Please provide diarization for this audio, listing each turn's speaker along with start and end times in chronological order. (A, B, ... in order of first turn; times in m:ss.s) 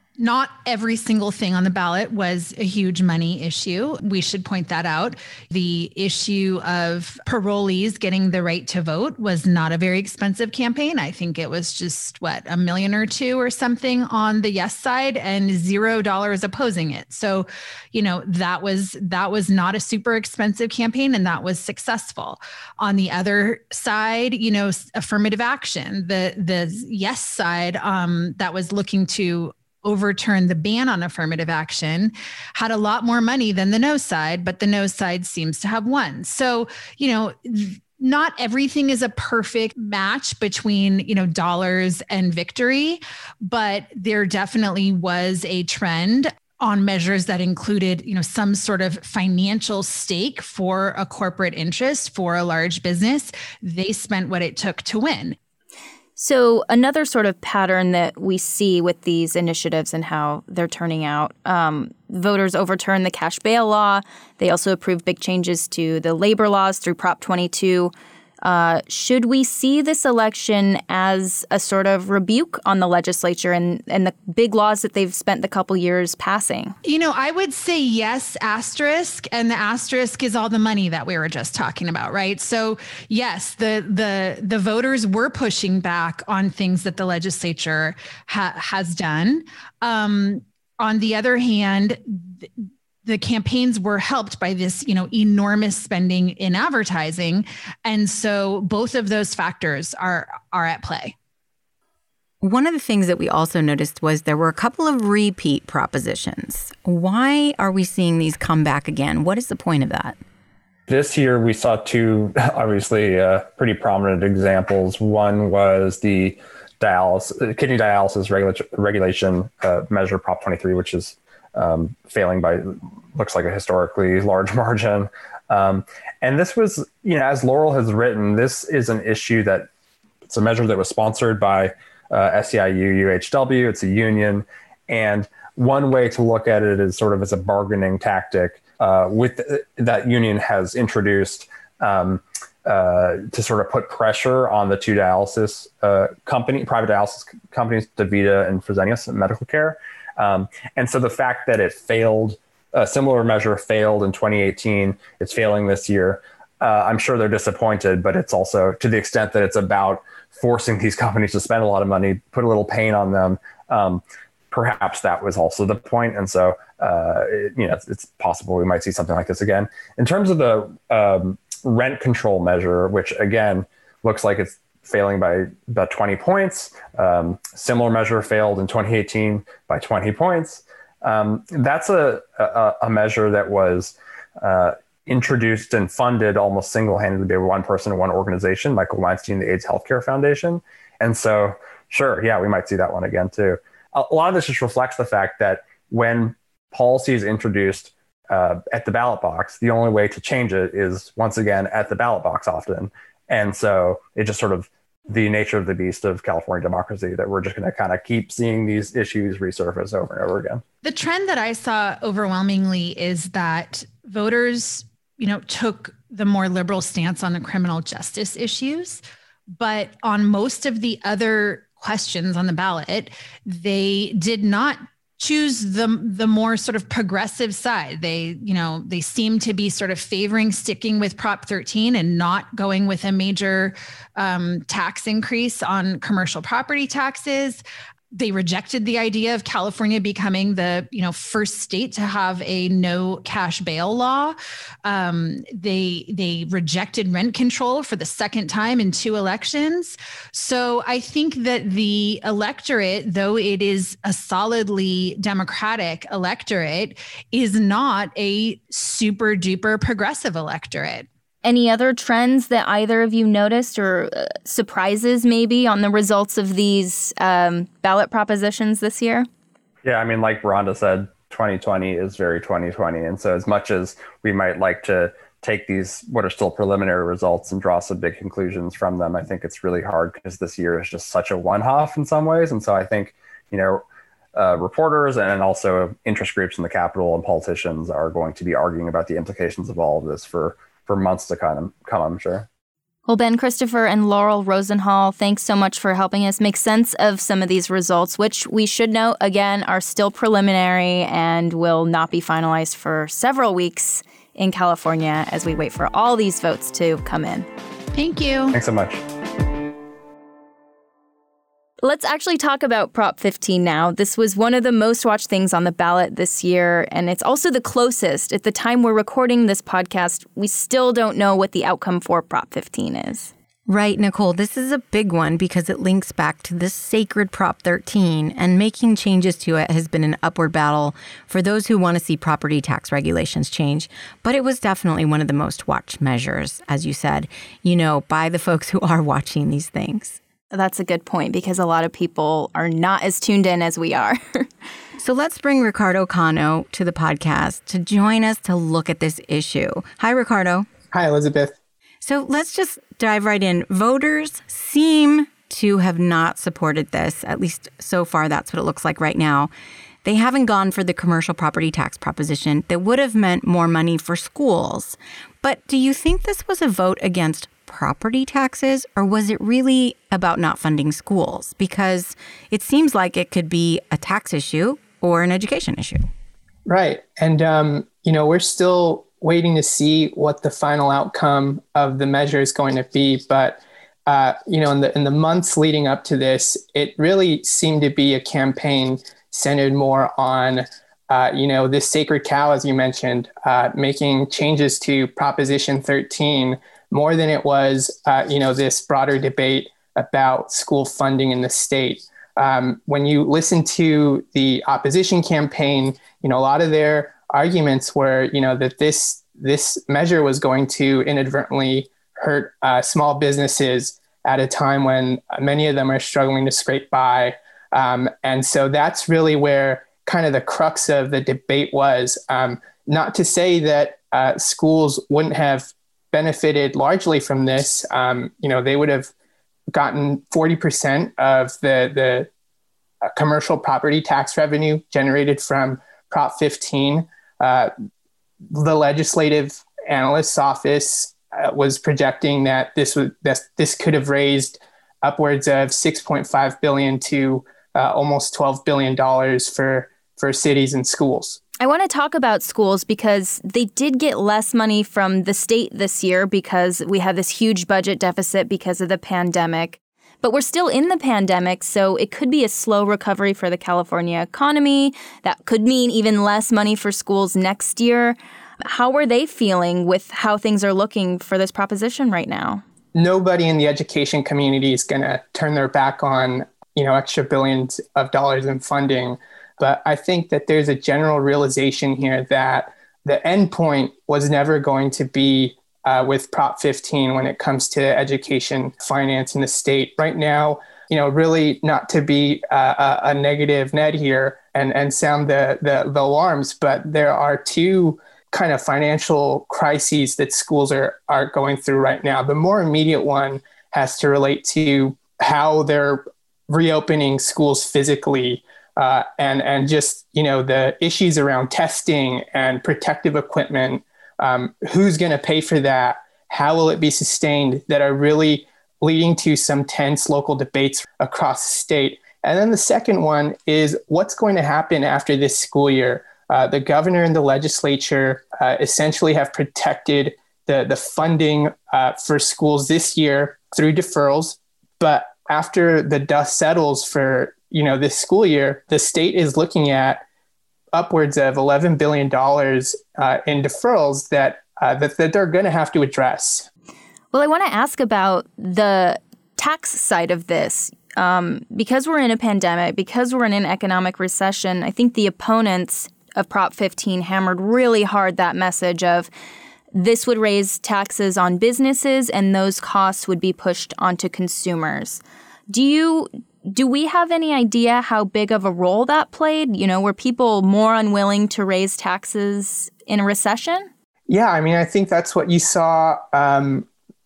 0:00.2-0:55.4 A
0:56.2-1:16.8 B
1:16.8-1:41.1 A
1:42.4-1:50.2 C
1:50.9-2:09.7 D
2:10.3-3:30.6 D
3:30.8-3:57.6 A
3:58.1-4:21.1 A
4:21.4-4:29.3 B
4:29.8-4:43.8 D
4:44.4-4:52.5 D
4:53.1-5:07.5 B
5:07.9-5:08.6 A
5:08.5-5:09.0 D
5:11.8-5:23.3 B
5:23.7-5:40.2 C
5:40.5-5:44.5 B
5:45.0-5:50.7 C
5:50.9-5:51.6 E
5:52.0-5:59.5 C
6:00.0-6:16.1 C
6:16.6-7:09.1 E
7:09.7-7:12.3 E
7:13.1-7:17.7 E
7:18.5-7:31.4 E
7:31.6-7:52.6 B
7:53.0-9:00.0 E
9:00.7-9:06.5 E
9:07.1-9:19.1 B
9:19.7-9:33.7 B
9:34.1-9:36.7 E